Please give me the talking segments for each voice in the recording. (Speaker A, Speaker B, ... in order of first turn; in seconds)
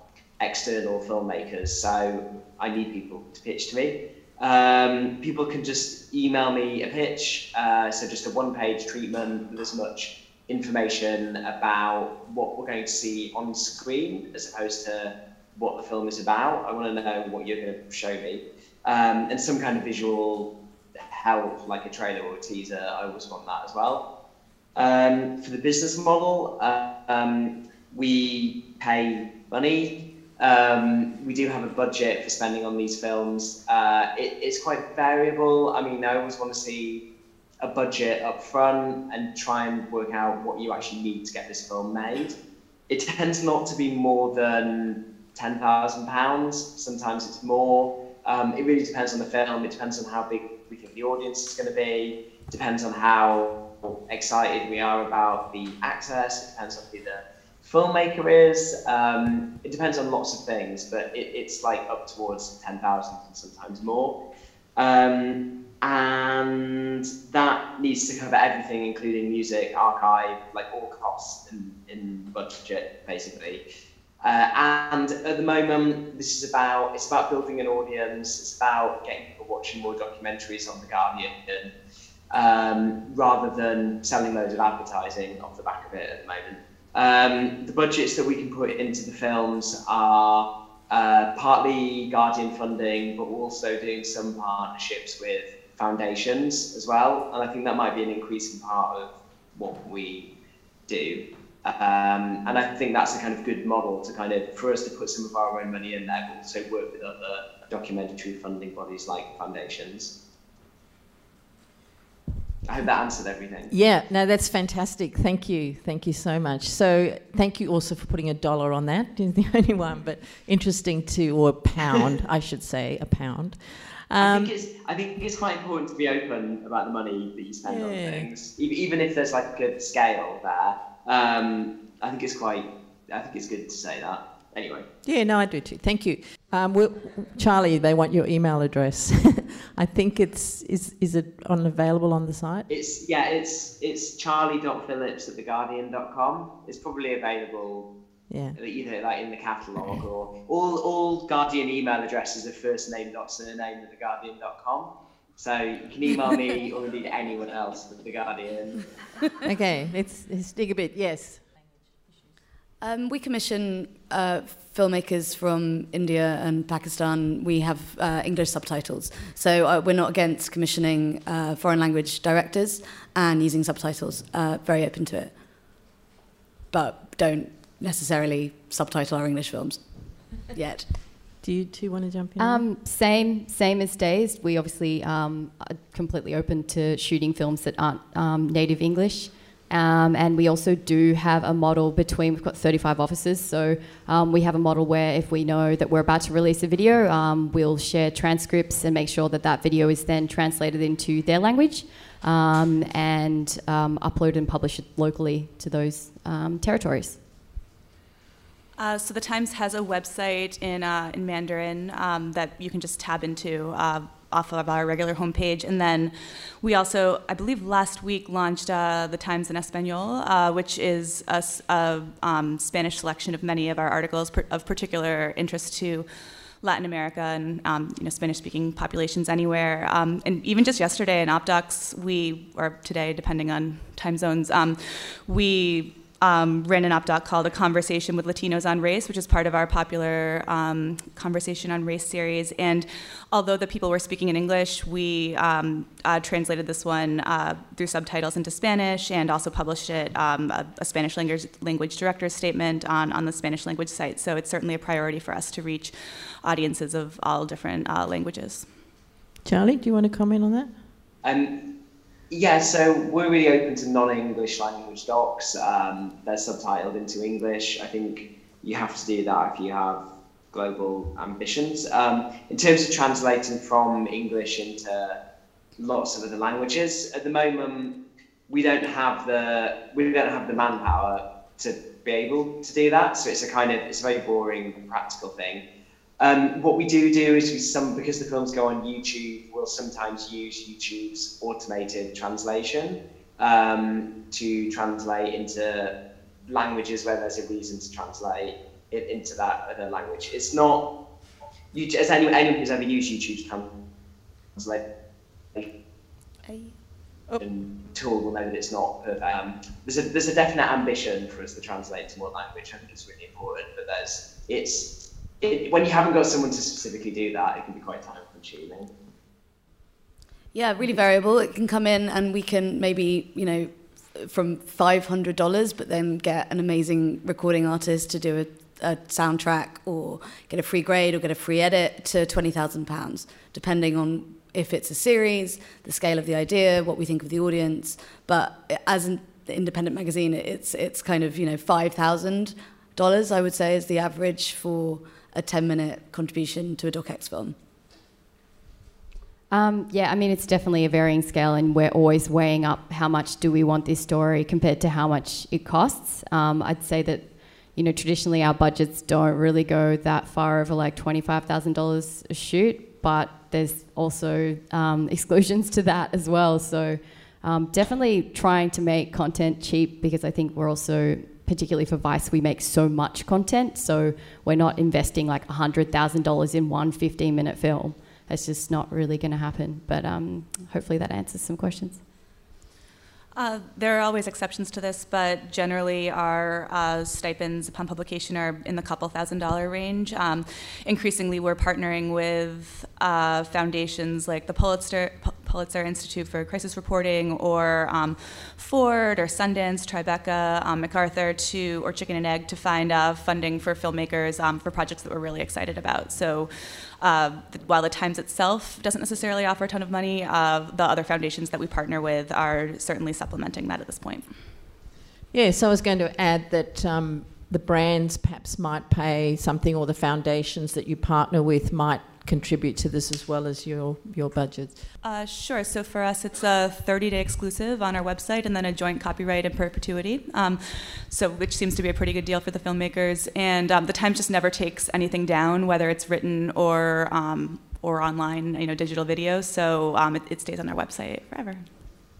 Speaker A: 0.4-24.1, 24.8-37.0, 37.6-42.4, 42.9-64.2, 64.8-73.6, 74.2-81.7, 82.3-100.3, 100.9-110.1, 112.7-113.7, 124.2-134.8, 142.7-147.9, 148.6-158.9, 261.2-261.6, 262.3-275.2, 275.8-278.0, 278.5-285.6, 286.2-295.9, 296.5-300.9, 301.7-303.7, 304.6-304.8, 307.4-318.9
Speaker B: 113.7-124.5, 127.7-128.3, 135.0-142.7, 148.3-148.6, 159.4-161.4, 181.4-182.6, 259.4-260.7, 415.3-424.8
Speaker C: 162.8-175.3, 176.7-179.8, 180.4-180.8, 306.4-306.7, 320.5-347.5
Speaker D: 182.4-207.2, 349.5-382.0
Speaker E: 208.8-226.1, 226.6-258.6, 383.3-414.2, 425.0-441.6